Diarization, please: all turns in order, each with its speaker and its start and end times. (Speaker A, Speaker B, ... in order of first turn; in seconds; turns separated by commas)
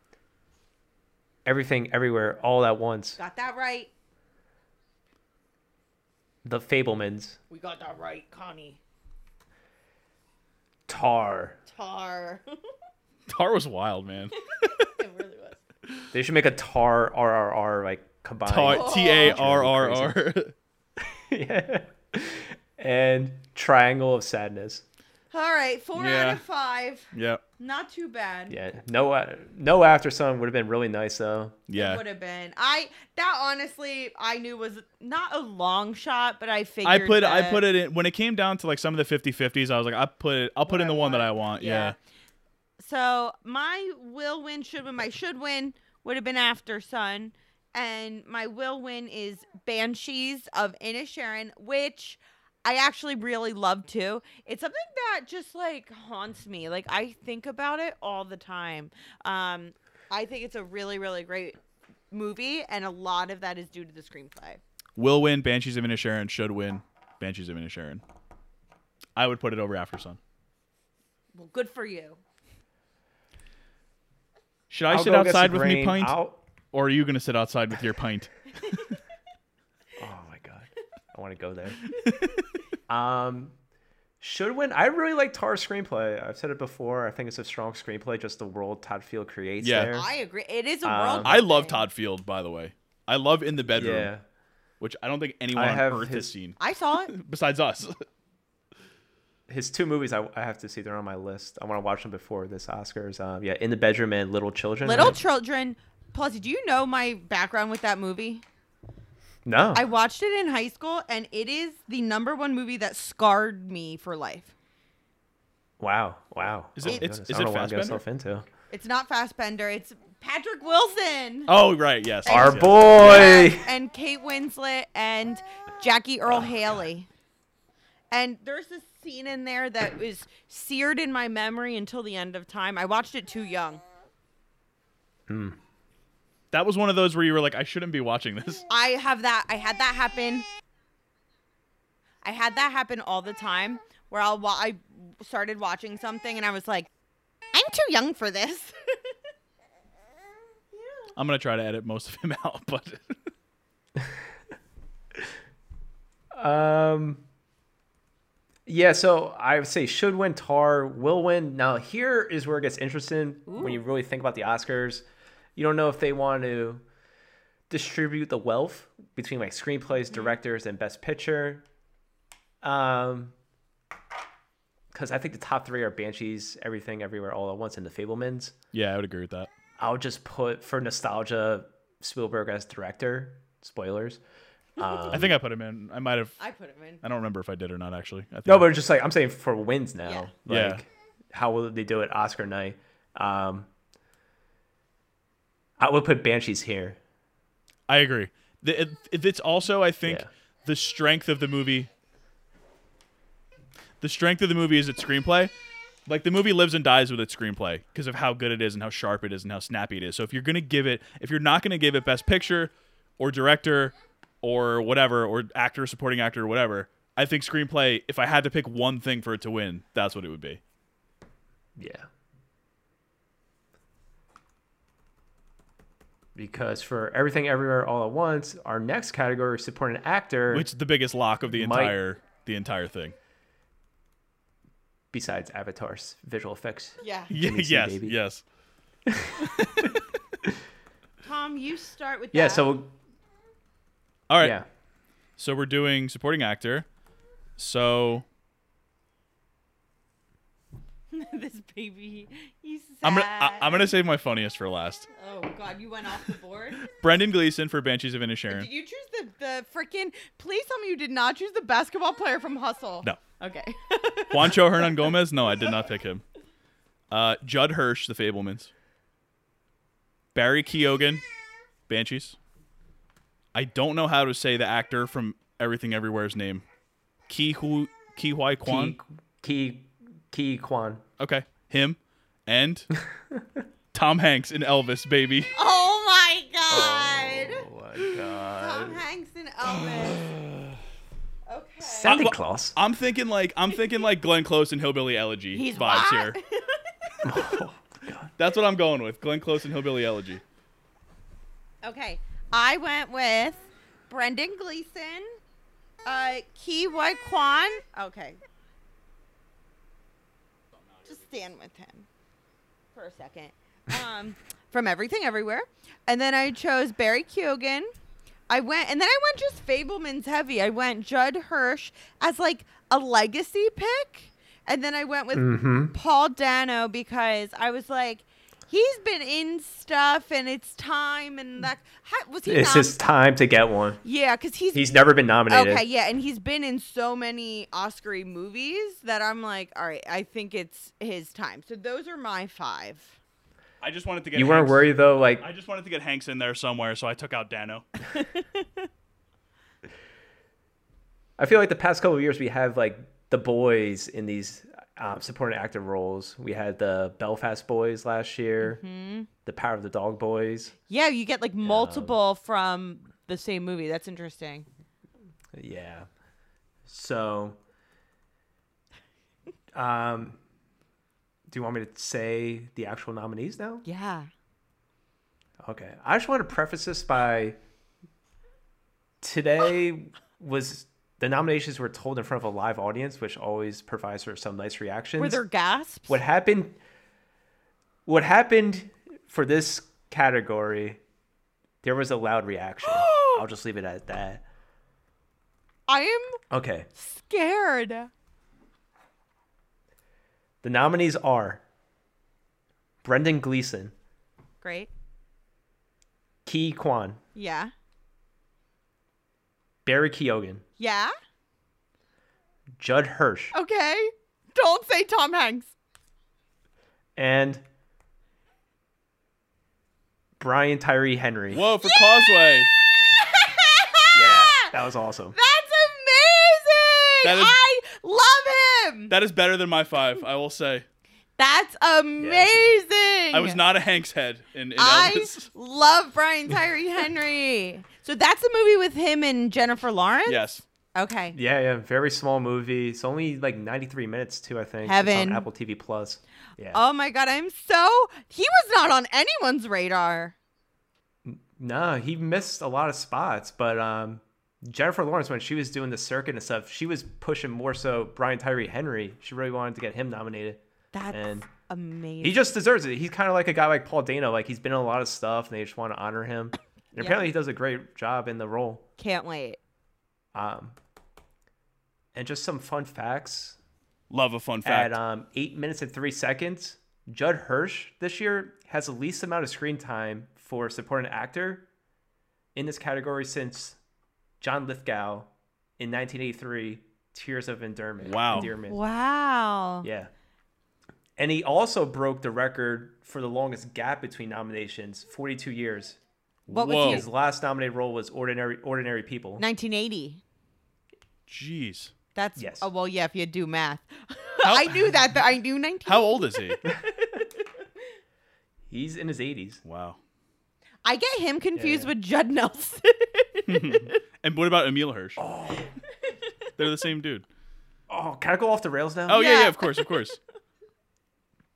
Speaker A: 1.4-3.2, Speaker B: 3.2-3.9, Speaker A: 6.4-7.4, Speaker B: 7.5-8.8, Speaker A: 10.9-11.6, Speaker B: 11.7-12.4, Speaker C: 13.3-14.7, Speaker B: 14.5-15.6, Speaker A: 16.1-20.2, Speaker C: 18.4-20.5, Speaker B: 18.7-19.4, Speaker A: 21.0-24.8, Speaker B: 25.3-28.6, Speaker C: 26.0-26.4, Speaker C: 27.1-27.4, Speaker A: 28.5-31.6, Speaker C: 31.7-32.0, Speaker B: 31.8-37.6, Speaker C: 36.8-42.0, Speaker B: 40.6-42.0, Speaker B: 42.8-61.6, Speaker B: 62.1-64.6, Speaker C: 65.0-68.0, Speaker C: 69.2-70.2, Speaker B: 71.3-72.2, Speaker C: 74.7-76.2, Speaker A: 74.9-76.4, Speaker C: 76.7-78.9, Speaker A: 80.0-81.8, Speaker C: 82.0-82.4, Speaker A: 82.9-83.5, Speaker A: 84.2-90.1, Speaker C: 89.6-89.9, Speaker B: 89.9-91.8, Speaker A: 90.8-91.4, Speaker C: 91.2-94.1, Speaker A: 93.7-94.2, Speaker C: 94.8-96.6, Speaker A: 95.5-96.3, Speaker B: 96.6-97.1, Speaker C: 97.1-98.0, Speaker A: 99.5-105.2, Speaker B: 104.8-108.4, Speaker A: 109.4-109.8, Speaker B: 109.7-114.5, Speaker A: 115.8-118.5, Speaker C: 116.7-118.0, Speaker B: 118.7-121.5, Speaker C: 121.5-123.3, Speaker A: 122.2-123.7, Speaker B: 122.2-127.1, Speaker A: 126.3-126.8, Speaker B: 128.1-133.8, Speaker A: 135.3-135.6, Speaker C: 136.5-138.6, Speaker B: 138.7-140.4, Speaker B: 142.2-146.9, Speaker B: 147.5-148.7, Speaker B: 150.7-151.1, Speaker C: 151.1-153.1, Speaker A: 153.9-154.2, Speaker A: 156.3-157.2, Speaker A: 158.7-166.8, Speaker B: 163.5-163.8, Speaker A: 167.7-171.6, Speaker A: 172.6-173.3, Speaker A: 174.9-178.5, Speaker C: 178.7-179.5, Speaker A: 179.8-184.2, Speaker A: 184.8-185.3, Speaker B: 184.8-185.2, Speaker C: 185.1-186.4, Speaker B: 186.4-187.0, Speaker C: 187.0-188.7, Speaker A: 188.4-193.7, Speaker B: 190.0-190.3, Speaker C: 190.5-190.8, Speaker A: 195.8-197.0, Speaker C: 197.9-201.9, Speaker A: 200.0-200.3, Speaker C: 204.0-205.5, Speaker C: 206.1-220.6, Speaker A: 221.8-222.1, Speaker A: 226.3-230.7, Speaker C: 230.5-233.1, Speaker A: 231.5-231.9, Speaker A: 235.1-238.2, Speaker B: 237.0-237.3, Speaker C: 237.3-238.4, Speaker A: 239.1-239.9, Speaker C: 239.4-239.9, Speaker B: 241.2-242.7, Speaker A: 242.3-242.9, Speaker C: 244.3-244.6, Speaker A: 244.4-244.6, Speaker C: 245.4-246.8, Speaker C: 247.6-248.2, Speaker B: 251.1-253.9, Speaker C: 253.0-255.1, Speaker B: 255.1-256.8, Speaker C: 256.8-258.7, Speaker B: 258.5-265.1, Speaker C: 264.3-266.2, Speaker C: 267.1-268.7, Speaker C: 270.3-271.2, Speaker C: 271.9-272.4, Speaker C: 273.5-276.6, Speaker C: 277.3-278.9, Speaker A: 278.6-281.0, Speaker C: 281.2-282.9, Speaker A: 282.9-283.6, Speaker C: 283.9-285.5, Speaker B: 285.5-287.6, Speaker A: 286.7-289.0, Speaker B: 288.5-290.3, Speaker C: 289.9-290.6, Speaker B: 291.5-292.2, Speaker A: 291.8-292.8, Speaker C: 292.0-296.4, Speaker B: 295.5-297.3, Speaker A: 297.2-298.3, Speaker C: 298.4-300.4, Speaker B: 301.8-305.3, Speaker B: 306.1-308.4, Speaker B: 311.1-312.1, Speaker B: 312.9-317.9, Speaker B: 318.5-333.0, Speaker A: 325.3-325.9, Speaker A: 332.4-334.0, Speaker B: 334.0-334.8, Speaker A: 334.7-335.8, Speaker B: 335.5-343.2, Speaker C: 343.8-344.9, Speaker A: 344.3-345.4, Speaker C: 345.4-347.9, Speaker B: 348.1-348.6, Speaker A: 351.4-358.8, Speaker B: 358.6-359.3, Speaker A: 359.4-360.7, Speaker B: 360.9-364.6, Speaker A: 361.6-362.1, Speaker A: 365.5-366.1, Speaker A: 366.9-367.6, Speaker A: 369.7-370.4, Speaker A: 371.5-373.8, Speaker B: 373.8-374.3, Speaker A: 375.6-377.6, Speaker A: 379.2-385.4, Speaker B: 385.2-386.2, Speaker A: 386.1-386.8, Speaker A: 388.1-391.0, Speaker A: 391.8-394.4, Speaker B: 392.8-393.4, Speaker B: 395.9-396.4, Speaker A: 396.5-396.9, Speaker B: 396.9-398.1, Speaker A: 400.6-401.6, Speaker A: 403.0-403.9, Speaker B: 404.6-404.9, Speaker A: 406.4-407.2, Speaker B: 407.3-407.7, Speaker A: 409.8-410.6, Speaker B: 410.8-411.1, Speaker A: 412.8-413.5, Speaker B: 413.5-415.7, Speaker A: 417.1-417.6, Speaker A: 420.4-421.6, Speaker C: 421.5-422.7, Speaker B: 421.8-422.4, Speaker B: 423.2-424.7, Speaker A: 424.1-425.4, Speaker B: 425.3-429.1, Speaker C: 427.2-427.6, Speaker C: 429.1-430.8, Speaker B: 431.4-433.6, Speaker A: 432.2-432.6, Speaker C: 433.3-435.5, Speaker B: 434.8-441.4, Speaker C: 440.3-440.6, Speaker A: 441.3-446.8, Speaker B: 444.8-445.5, Speaker B: 446.7-450.3, Speaker A: 451.2-461.5, Speaker B: 460.9-462.5, Speaker A: 462.2-468.8, Speaker B: 467.0-467.2, Speaker B: 469.0-469.6, Speaker A: 470.3-470.8, Speaker A: 472.1-473.6, Speaker C: 474.1-475.0, Speaker A: 474.6-481.7, Speaker A: 482.5-483.8, Speaker A: 484.4-488.8, Speaker C: 488.0-488.5, Speaker B: 488.3-489.9, Speaker A: 489.8-490.1, Speaker A: 491.2-496.0, Speaker C: 496.5-497.1, Speaker B: 496.5-497.1, Speaker A: 496.8-499.4, Speaker B: 499.4-500.2, Speaker C: 501.3-501.9, Speaker B: 502.1-507.1, Speaker A: 502.4-502.7, Speaker C: 504.4-504.7, Speaker C: 505.9-506.6, Speaker A: 508.7-509.6, Speaker C: 509.6-510.0, Speaker B: 510.8-514.0, Speaker A: 511.5-511.9, Speaker C: 513.5-515.2, Speaker A: 515.2-515.7, Speaker C: 516.6-517.2, Speaker A: 517.9-519.3, Speaker C: 519.1-520.2, Speaker B: 519.1-520.1